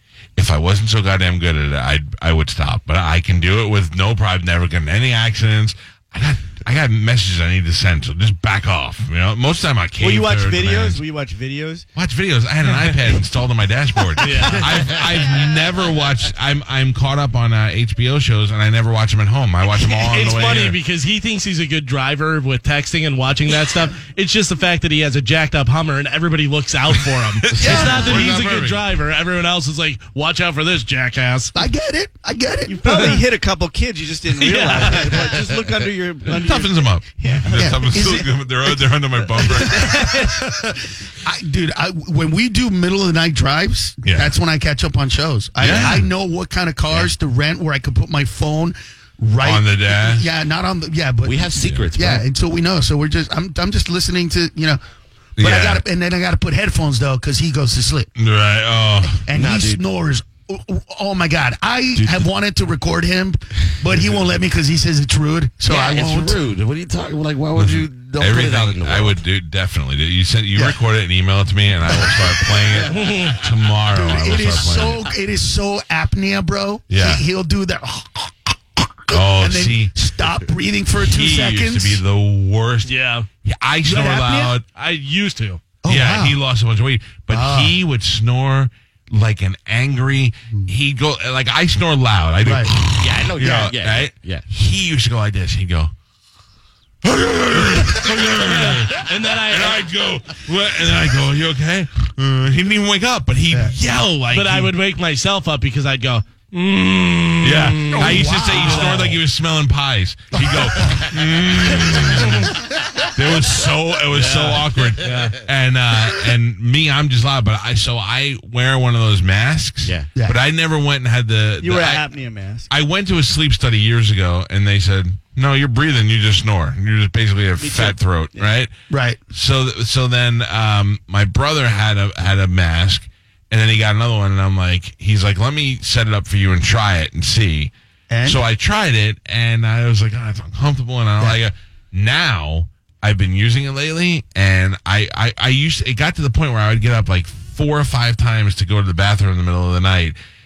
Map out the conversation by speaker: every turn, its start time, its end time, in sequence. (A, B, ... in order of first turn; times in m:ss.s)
0:00.4-0:11.0 A
0:10.0-0:11.8 B
0:12.0-0:20.8 A
0:14.2-0:15.1 C
0:14.2-0:14.6 B
0:19.7-0:31.5 C
0:27.4-0:28.8 A
0:27.5-0:28.2 D
0:31.5-0:33.2 E
0:32.7-0:37.9 B
0:34.3-0:35.3 C
0:35.2-0:35.6 D
0:36.2-0:40.1 A
0:37.5-0:54.8 E
0:39.5-0:40.2 B
0:44.0-0:44.4 A
0:45.6-0:46.1 A
0:49.4-0:50.2 A
0:51.2-0:52.2 D
0:55.4-0:55.8 A
0:55.4-0:58.1 E
0:58.2-0:59.2 A
0:59.1-1:06.4 E
0:59.3-0:59.8 D
1:01.9-1:02.3 D
1:05.6-1:09.2 D
1:07.6-1:15.1 A
1:11.9-1:12.2 E
1:12.0-1:12.8 D
1:12.9-1:13.4 C
1:13.9-1:22.0 E
1:16.9-1:17.2 A
1:19.1-1:19.9 A
1:21.0-1:22.9 A
1:22.8-1:23.3 C
1:23.4-1:24.6 A
1:23.8-1:24.6 E
1:24.7-1:25.6 C
1:25.8-1:26.4 E
1:25.9-1:35.9 A
1:27.3-1:27.8 E
1:32.4-1:32.7 E
1:32.9-1:34.4 D
1:33.4-1:33.7 E
1:37.0-1:44.7 A
1:38.4-1:39.8 C
1:44.3-1:49.2 C
1:47.4-2:02.0 A
1:47.9-1:49.2 E
1:50.3-1:51.2 E
1:51.8-1:52.5 E
1:52.2-1:52.5 C
1:54.1-1:55.4 C
2:01.6-2:02.7 B
2:02.7-2:08.7 A
2:07.6-2:08.5 B
2:08.9-2:09.2 E
2:09.3-2:17.7 A
2:18.1-2:18.4 E
2:18.2-2:30.1 A